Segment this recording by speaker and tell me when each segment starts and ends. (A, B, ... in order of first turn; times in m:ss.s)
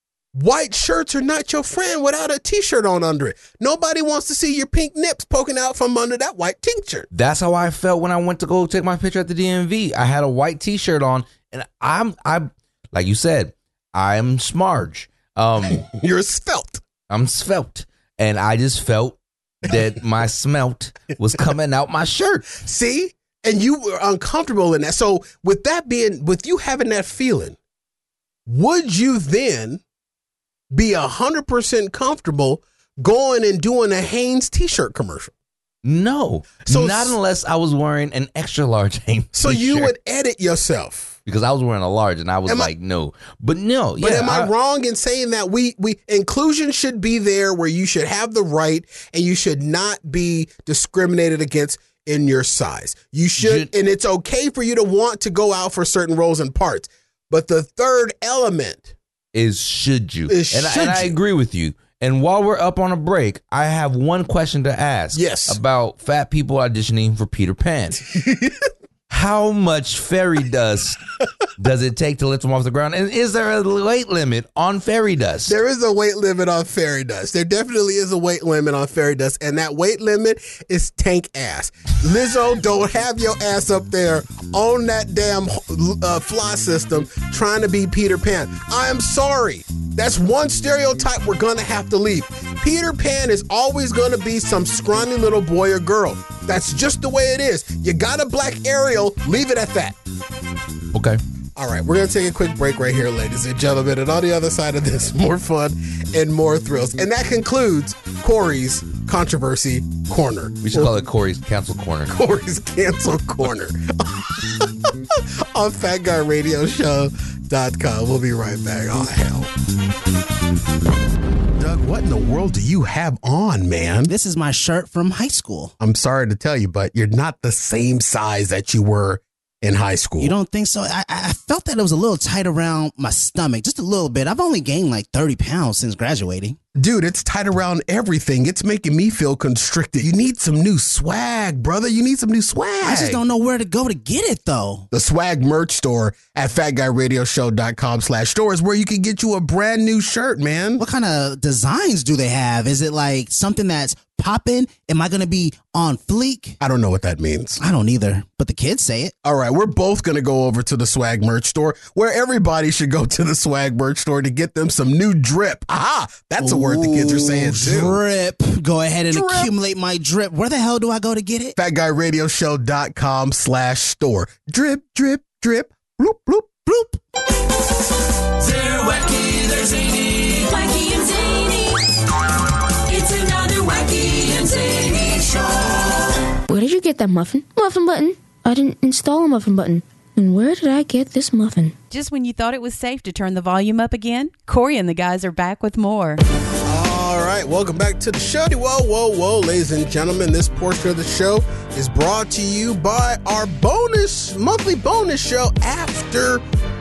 0:00.3-0:07.1 A
0:07.1-0:15.8 B
0:15.8-0:16.8 A
0:17.1-0:22.4 B
0:22.6-0:27.6 A
0:28.5-0:29.8 A
0:30.7-0:35.3 A
0:35.8-0:39.9 B
0:36.6-0:37.2 A
0:39.3-0:41.2 A
0:41.2-0:44.5 B
0:42.4-0:42.7 A
0:44.0-0:58.9 A
0:53.4-0:53.7 B
0:59.3-1:08.0 B
1:00.3-1:01.2 A
1:05.1-1:05.6 A
1:08.1-1:08.6 A
1:09.1-1:11.0 B
1:11.6-1:15.6 B
1:15.5-1:40.0 A
1:40.9-1:41.2 B
1:41.6-1:50.9 A
1:50.6-1:52.1 B
1:52.1-1:59.5 A
2:01.6-2:04.1 A
2:04.1-2:05.7 C
2:05.8-2:10.3 A
2:10.2-2:16.6 C
2:16.8-2:23.2 A
2:22.8-2:24.8 C
2:24.9-2:30.8 A
2:30.8-2:36.6 C
2:36.6-2:37.6 A
2:37.6-2:39.1 C
2:39.2-2:48.0 A
2:46.4-2:51.5 C
2:49.1-2:49.5 A
2:51.6-2:56.9 A
2:58.4-3:01.8 D
3:02.9-3:05.9 D
3:06.5-3:11.7 E
3:11.9-3:16.2 F
3:16.7-3:26.4 A